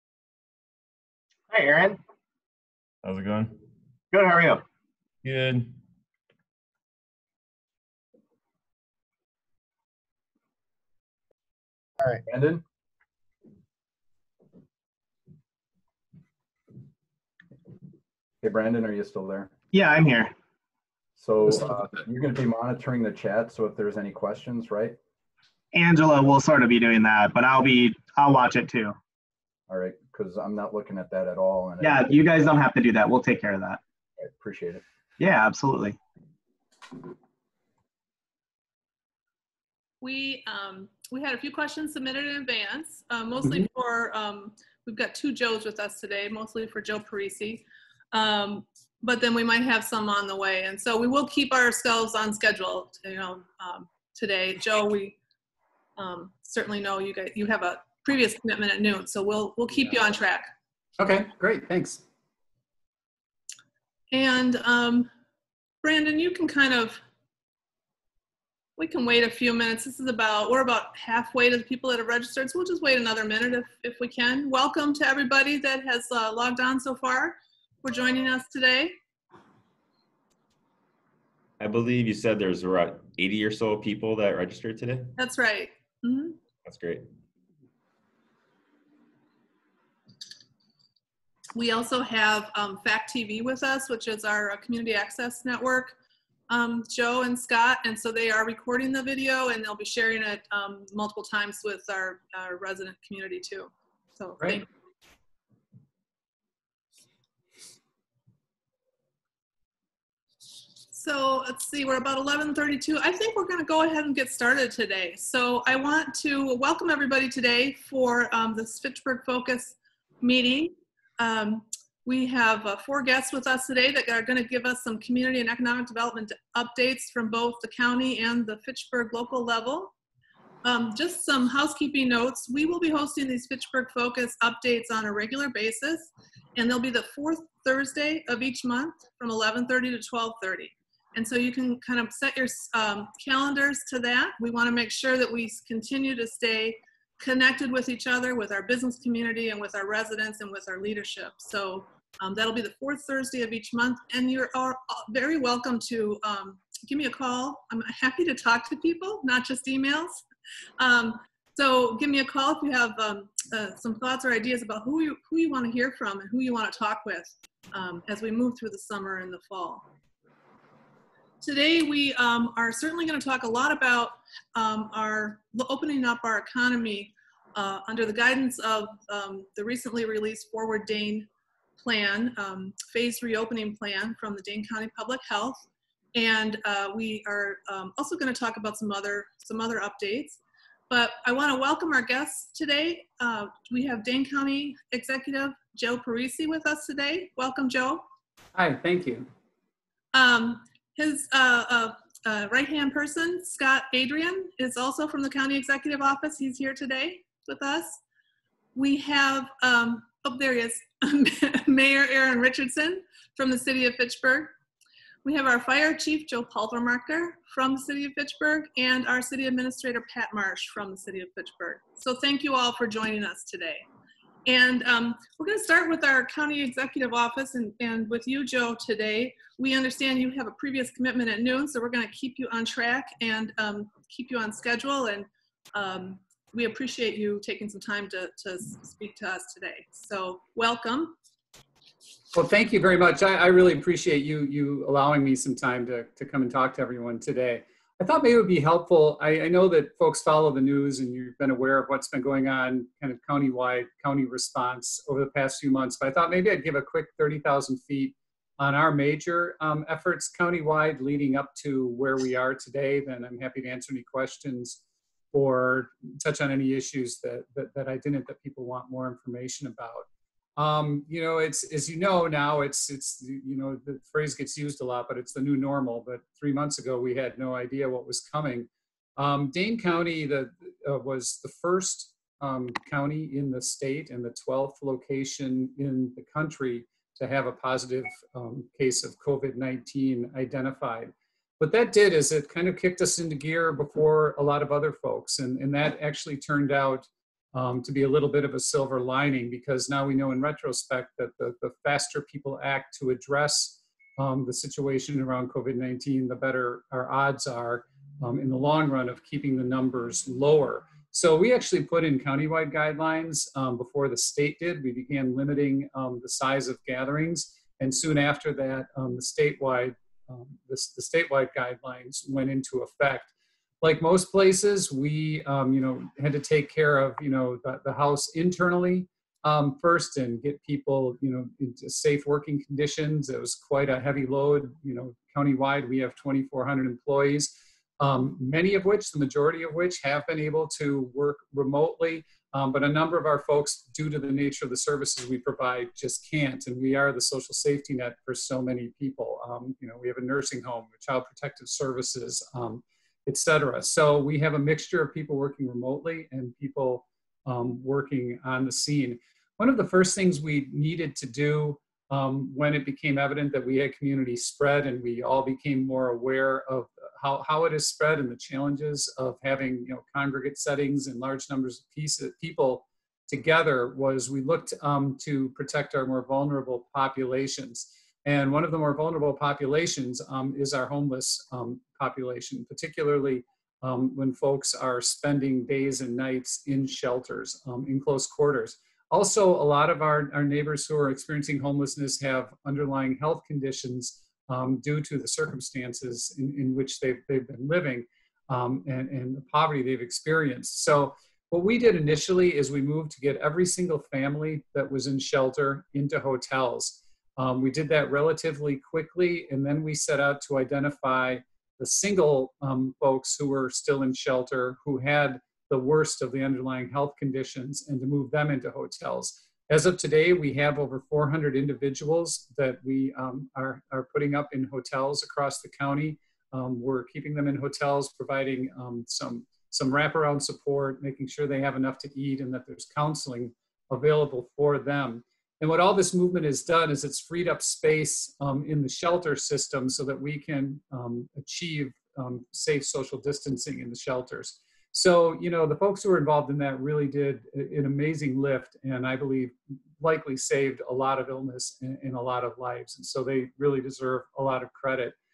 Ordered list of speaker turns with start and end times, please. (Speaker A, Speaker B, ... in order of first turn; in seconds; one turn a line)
Speaker A: 1.5-2.0
Speaker B: 3.0-3.6
Speaker A: 4.1-4.6
Speaker B: 5.2-5.7
Speaker C: 12.3-12.6
Speaker C: 18.4-19.6
Speaker A: 19.7-20.3
Speaker C: 21.2-25.0
Speaker A: 25.7-29.0
Speaker C: 29.7-32.1
Speaker A: 31.8-33.8
Speaker C: 34.2-34.8
Speaker A: 35.2-36.0
Speaker D: 40.0-55.2
Speaker D: 56.0-60.5
Speaker E: 61.0-62.0
Speaker D: 64.1-65.1
Speaker D: 65.8-67.0
Speaker D: 68.8-79.0
Speaker B: 81.6-85.1
Speaker D: 85.2-86.4
Speaker B: 86.7-87.0
Speaker D: 91.5-96.0
Speaker D: 96.5-104.7
Speaker D: 110.9-129.9
Speaker D: 130.6-160.2
Speaker D: 160.8-169.9
Speaker D: 171.4-181.3
Speaker D: 181.8-185.6
Speaker D: 186.2-190.4
Speaker D: 190.9-198.0
Speaker E: 198.6-199.3
Speaker D: 200.1-208.0
Speaker D: 208.8-214.5
Speaker D: 215.2-223.9
Speaker D: 224.5-241.2
Speaker E: 242.3-455.2